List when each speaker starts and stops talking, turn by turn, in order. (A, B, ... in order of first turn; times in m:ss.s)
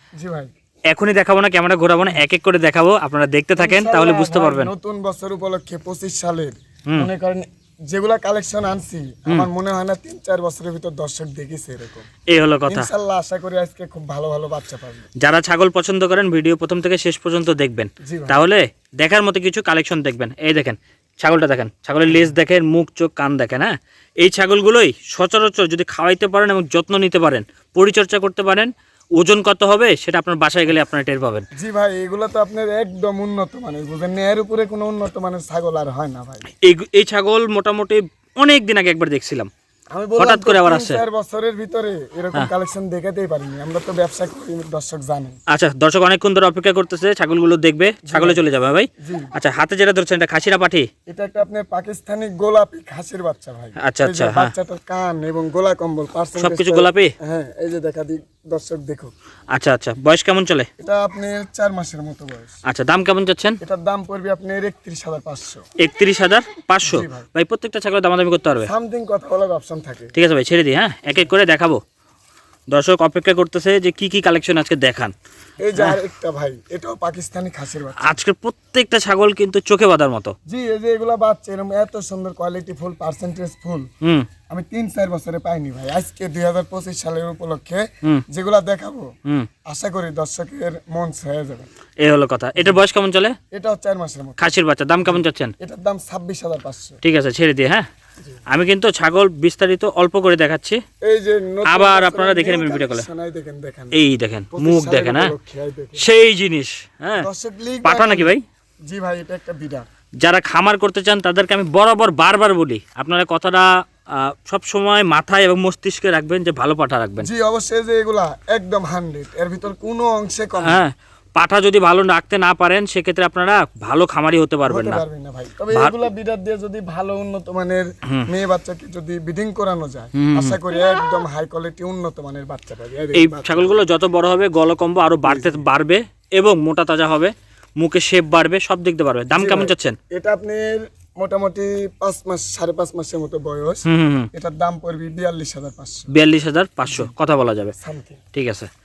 0:00.2-0:00.5 A
0:00.9-0:04.7 B
0:03.6-0:12.1 A
0:12.3-0:12.9 B
0:12.6-0:15.1 A
0:15.2-0:31.4 B
0:18.0-0:18.4 A
0:31.5-0:36.5 A
0:36.6-0:39.5 B
0:39.9-0:45.4 A
0:40.2-0:41.0 B
0:45.5-0:50.9 B
0:48.0-0:48.4 A
0:49.0-0:49.3 A
0:51.1-0:59.1 A
0:53.8-0:54.5 B
0:56.4-0:57.1 B
0:59.5-1:00.7 B
1:00.8-1:02.5 A
1:02.6-1:03.6 B
1:03.6-1:05.6 A
1:05.8-1:08.7 B
1:06.8-1:07.3 A
1:08.6-1:10.1 A
1:10.1-1:11.8 B
1:12.7-1:15.1 B
1:15.6-1:18.1 A
1:18.0-1:20.3 B
1:20.5-1:23.9 A
1:24.0-1:24.3 B
1:24.5-1:29.1 A
1:29.6-1:31.7 A
1:32.0-1:33.3 B
1:33.5-1:34.5 A
1:34.4-1:35.5 B
1:35.0-1:37.0 A
1:37.0-1:37.9 B
1:38.5-1:40.8 B
1:41.0-1:44.0 A
1:41.6-1:43.0 B
1:43.9-1:45.3 B
1:44.5-1:46.1 A
1:46.0-1:47.3 B
1:47.2-1:48.3 A
1:47.8-1:48.4 B
1:48.9-1:49.9 A
1:50.2-1:57.3 B
1:57.2-2:00.8 A
2:00.6-2:05.0 B
2:04.7-2:13.8 A
2:10.1-2:10.6 B
2:13.1-2:20.0 B
2:15.2-2:15.6 A
2:19.3-2:26.1 A
2:23.8-2:24.3 B
2:26.1-2:27.7 B
2:26.9-2:27.1 A
2:27.8-2:28.2 A
2:28.3-2:28.7 B